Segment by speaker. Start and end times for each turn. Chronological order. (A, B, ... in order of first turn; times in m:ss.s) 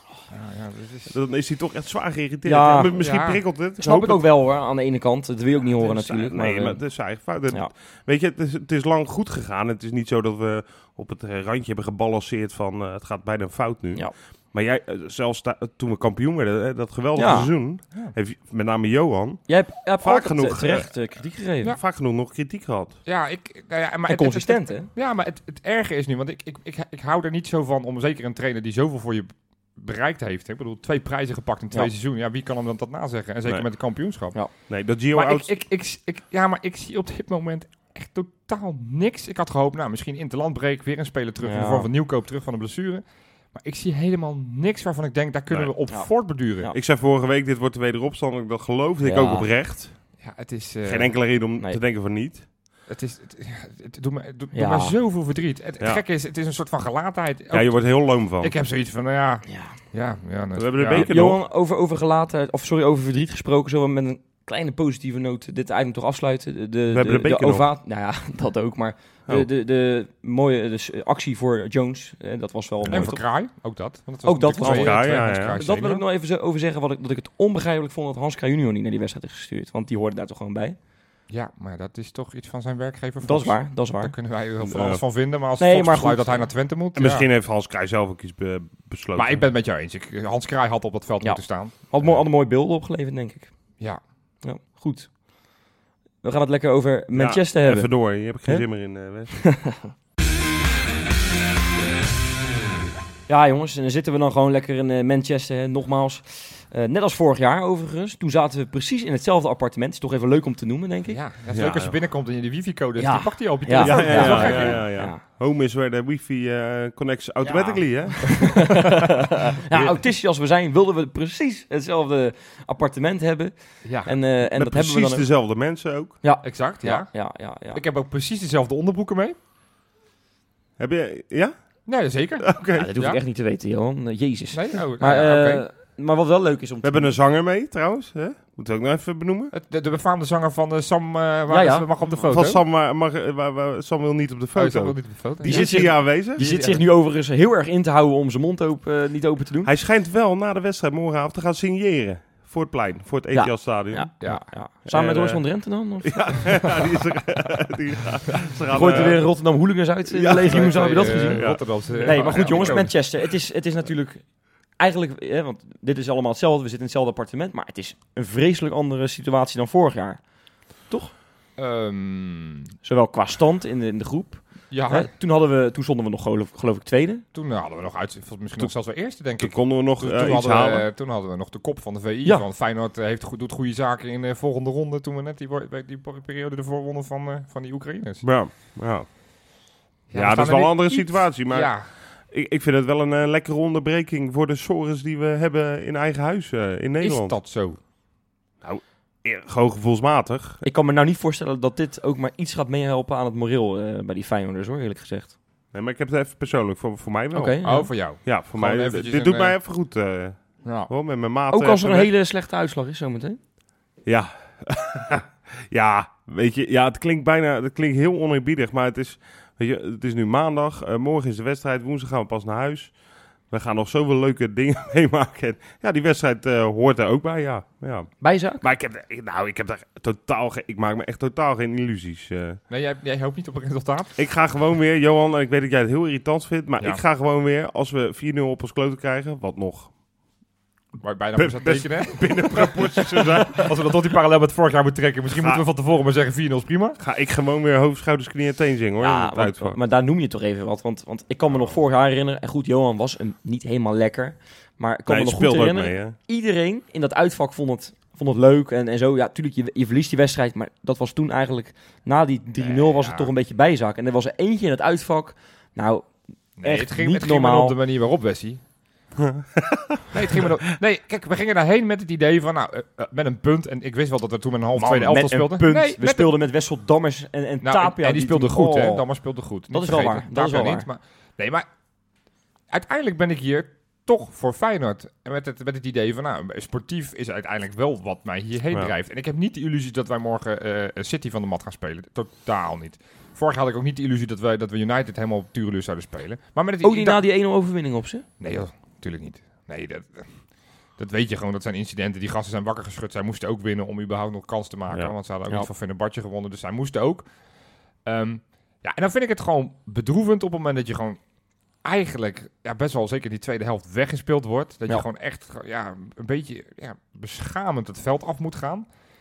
0:00.3-0:01.1 A
0:01.1-0:04.2 B
0:02.4-0:02.9 C
0:02.9-0:03.4 A
0:03.8-0:06.8 C
0:05.8-0:21.0 B
0:17.2-0:17.5 C
0:19.5-0:21.8 C
0:21.7-0:23.0 B
0:23.1-0:34.4 A
0:24.1-0:24.9 C
0:34.7-0:35.5 B
0:35.1-0:46.7 A
0:41.4-0:41.9 C
0:45.9-0:46.8 C
0:46.7-0:50.0 B
0:49.0-0:49.5 C
0:50.2-0:51.1 A
0:50.8-0:52.5 B
0:52.9-1:01.1 A
0:54.5-0:55.0 C
0:57.5-0:58.5 B
0:59.5-0:59.8 C
1:00.6-1:01.4 B
1:00.9-1:13.2 C
1:06.9-1:07.7 B
1:12.9-1:16.0 A
1:14.2-1:20.8 C
1:14.6-1:15.6 B
1:21.3-1:27.3 A
1:23.2-1:24.1 C
1:24.6-1:25.0 B
1:25.6-1:26.5 C
1:27.0-1:29.4 B
1:29.2-1:31.9 A
1:31.2-1:33.5 C
1:34.4-1:35.1 C
1:36.2-1:38.7 C
1:37.1-1:39.5 B
1:39.4-1:39.9 C
1:43.3-1:51.2 C
1:51.1-1:54.9 A
1:51.5-1:52.0 B
1:53.0-1:55.2 C
1:53.8-1:58.8 B
1:57.4-2:05.3 C
1:59.7-2:00.0 B
2:03.8-2:04.1 A
2:04.4-2:06.2 B
2:06.2-2:07.8 C
2:06.4-2:07.2 A
2:07.7-2:09.4 A
2:10.8-2:11.6 B
2:11.9-2:13.2 A
2:12.4-2:12.9 B
2:12.7-2:17.2 C
2:14.5-2:15.6 A
2:16.8-2:19.5 B
2:19.5-2:22.6 A
2:21.5-2:21.9 C
2:22.1-2:26.4 B
2:24.6-2:26.8 A
2:25.4-2:29.7 C
2:29.6-2:34.3 B
2:33.3-2:36.7 C
2:34.2-2:34.5 A
2:34.8-2:35.5 B
2:36.0-2:39.2 B
2:38.7-2:50.2 C
2:40.1-2:43.0 B
2:40.4-2:43.0 A
2:50.9-2:51.1 C
2:51.6-2:52.7 A
2:52.8-2:57.2 C
2:54.7-2:55.1 A
2:57.3-3:08.2 A
2:59.4-3:00.9 B
3:08.2-3:09.1 B
3:10.1-3:11.8 A
3:10.1-3:17.4 B
3:17.0-3:17.8 A
3:18.6-3:20.6 B
3:20.6-3:25.4 C
3:25.7-3:32.1 B
3:27.3-3:27.9 C
3:27.6-3:29.6 A
3:30.6-3:30.9 A
3:31.5-3:33.4 C
3:34.0-3:52.6 B
3:48.2-3:48.6 C
3:52.7-3:54.1 A
3:54.2-3:59.9 B
4:01.0-4:07.0 A
4:01.4-4:03.8 B
4:07.0-4:09.8 B
4:09.0-4:27.8 C
4:15.1-4:16.2 B
4:22.6-4:23.3 A
4:26.6-4:28.6 A
4:29.2-4:30.5 B
4:30.1-4:36.3 A
4:34.8-4:39.0 C
4:37.6-4:41.6 A
4:39.7-4:40.9 C
4:42.7-4:57.2 A
4:56.8-4:58.2 C
4:58.4-5:00.4 A
5:01.0-5:07.3 A
5:08.0-5:11.2 A
5:11.8-5:18.9 A